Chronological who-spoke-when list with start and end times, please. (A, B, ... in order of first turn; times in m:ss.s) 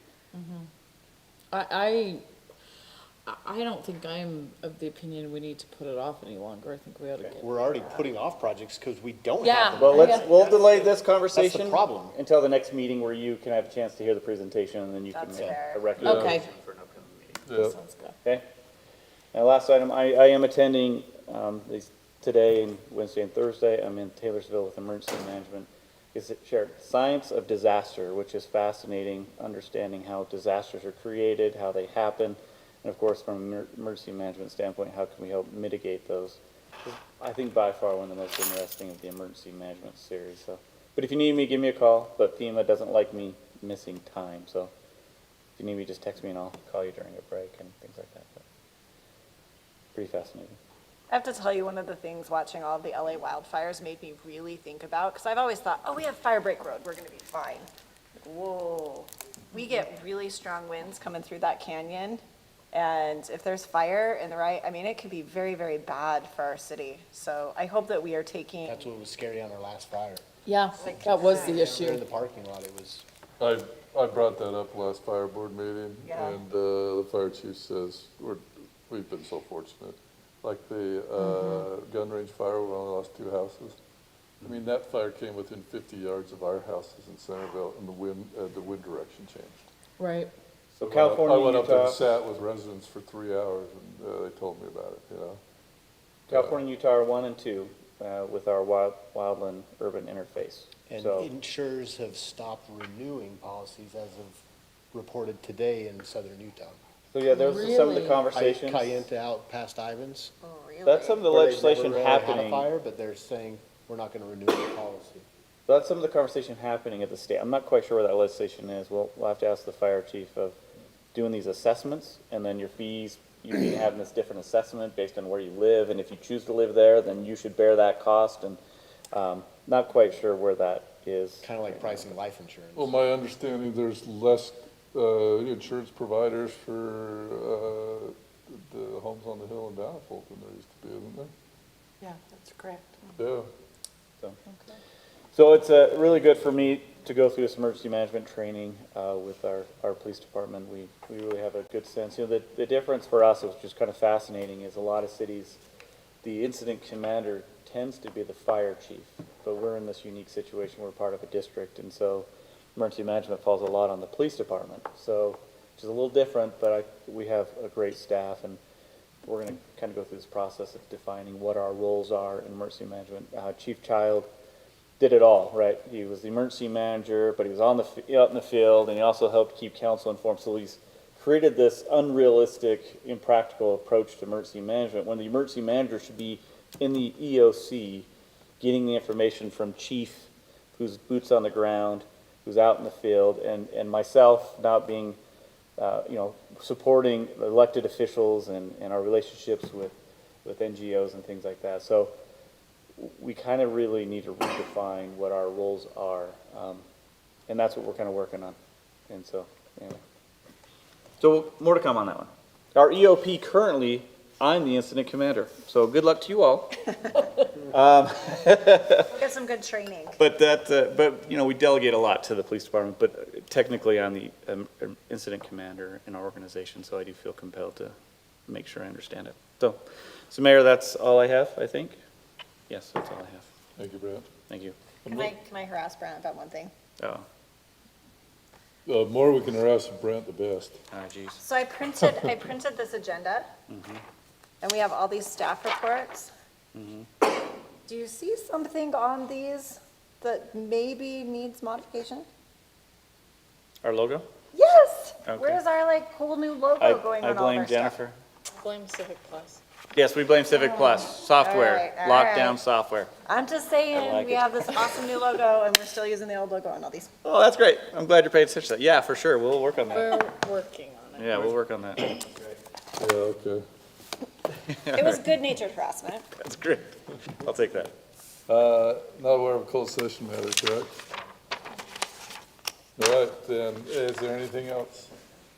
0:00.3-0:00.7 A
0:01.5-0:02.2 A
0:03.2-0:07.5 A
0:07.2-0:12.1 B
0:09.4-0:10.5 A
0:09.8-0:17.3 C
0:15.1-0:16.0 D
0:16.0-0:16.5 A
0:16.0-0:16.4 E
0:17.5-0:17.8 E
0:17.5-0:18.1 A
0:19.3-0:44.7 C
0:45.6-0:48.4 C
0:49.9-0:50.6 C
0:51.1-0:57.7 D
0:58.2-1:08.8 D
1:08.6-1:10.2 B
1:10.4-1:12.0 A
1:10.8-1:13.0 B
1:10.8-1:11.6 D
1:13.4-1:23.8 E
1:16.0-1:16.4 D
1:21.2-1:21.7 A
1:24.4-1:29.6 E
1:30.0-1:30.3 A
1:30.7-1:32.0 C
1:30.8-1:35.4 E
1:36.3-1:41.3 C
1:36.3-1:36.6 E
1:40.9-1:44.4 B
1:44.9-1:46.8 B
1:47.1-1:49.0 C
1:47.3-1:48.2 A
1:48.3-1:50.3 B
1:50.4-1:51.2 D
1:50.8-1:52.7 C
1:51.3-1:55.2 B
1:55.7-2:00.6 C
2:01.1-2:08.6 C
2:09.1-2:12.1 C
2:11.4-2:13.0 B
2:12.8-2:21.3 E
2:22.0-2:22.8 A
2:23.2-2:23.5 E
2:25.3-2:35.6 C
2:36.2-2:48.6 C
2:49.2-2:54.3 C
2:55.0-3:08.1 C
3:08.6-3:15.2 C
3:15.8-3:22.1 C
3:23.0-3:26.8 C
3:27.5-3:28.6 C
3:29.1-3:30.0 C
3:31.2-3:39.0 C
3:39.1-3:40.2 D
3:40.2-3:47.9 C
3:48.5-3:52.0 C
3:52.7-3:53.5 C
3:53.8-3:54.3 E
3:54.5-3:54.8 C
3:55.0-3:56.7 D
3:57.0-3:57.2 C
3:58.8-4:00.8 E
4:00.9-4:01.4 C
4:01.4-4:03.5 D
4:03.7-4:04.0 C
4:04.6-4:06.3 D
4:06.7-4:07.1 C
4:07.8-4:12.3 D
4:13.8-4:14.3 C
4:14.5-4:18.0 D
4:15.2-4:15.6 C
4:16.8-4:18.2 C
4:18.6-4:19.6 A
4:19.9-4:23.1 C
4:20.5-4:22.6 D
4:23.2-4:27.1 D
4:23.9-4:25.1 C
4:27.2-4:30.3 C
4:29.9-4:31.5 A
4:31.2-4:32.2 C
4:33.0-4:33.6 E
4:34.7-4:35.2 C
4:34.9-4:36.3 D
4:36.4-4:37.9 C
4:38.5-4:41.0 E
4:43.0-4:45.1 E